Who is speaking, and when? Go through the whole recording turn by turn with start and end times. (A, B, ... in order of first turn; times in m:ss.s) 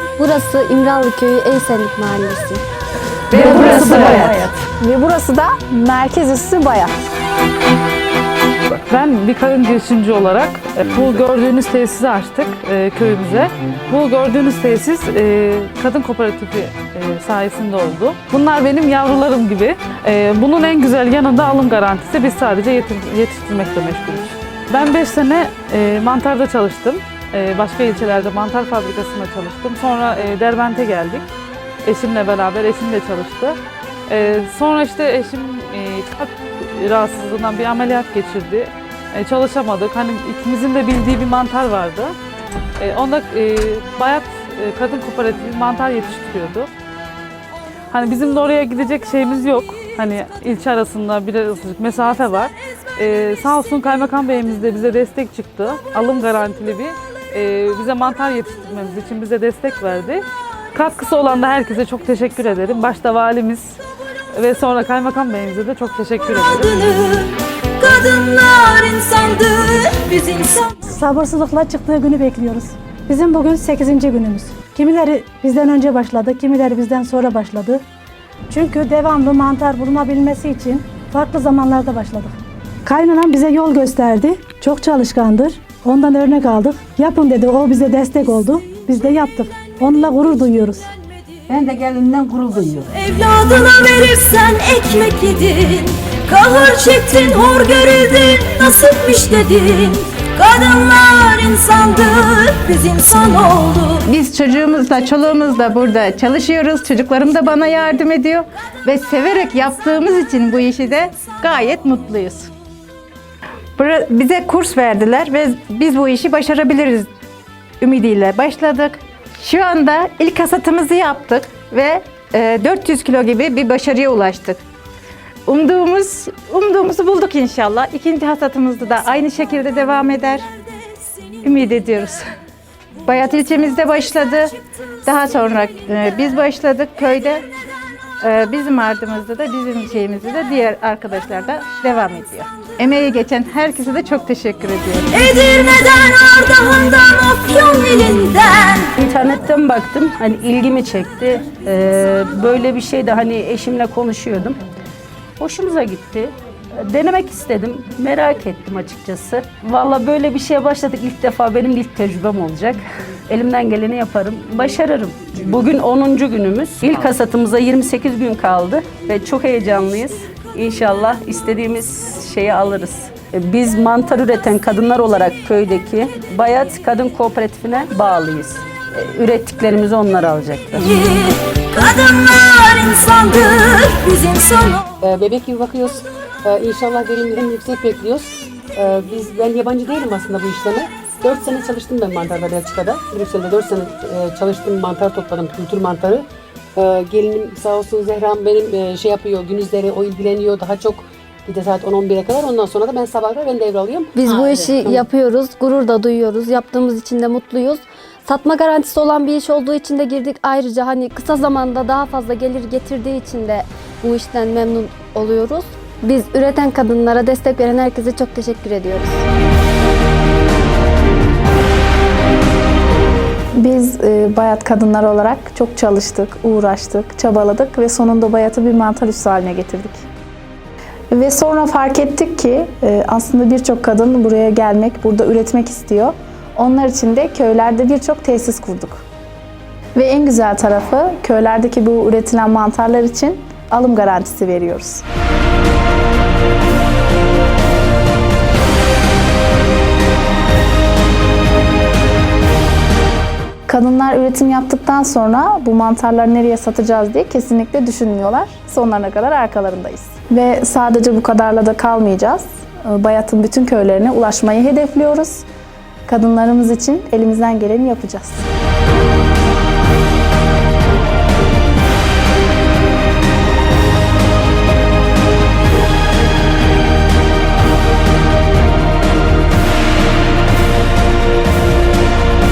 0:00.2-0:02.6 A
0:03.3-0:06.9 B
0:03.3-0:04.6 C
0:03.4-0:04.1 D
0:03.6-0:04.2 E
0:08.7-0:31.2 E
0:31.8-0:33.6 E
0:34.1-0:42.1 E
0:42.8-0:46.7 E
0:47.9-1:03.8 E
1:04.3-1:06.9 E
1:06.9-1:10.6 F
1:10.7-1:17.8 D
1:18.5-1:30.9 D
1:31.5-1:32.9 G
1:33.0-1:44.0 F
1:44.0-1:52.5 G
1:53.8-1:57.1 G
1:57.8-2:04.6 G
2:05.5-2:10.4 G
2:11.4-2:12.2 G
2:13.0-2:17.4 G
2:18.2-2:25.2 G
2:25.2-2:28.9 F
2:29.0-2:34.6 C
2:35.4-3:04.1 C
3:01.0-3:04.9 F
3:05.0-3:25.0 H
3:24.2-3:39.2 A
3:43.6-3:50.0 B
3:51.1-3:59.0 B
4:00.0-4:05.0 B
4:13.7-4:25.4 B
4:26.1-4:28.5 B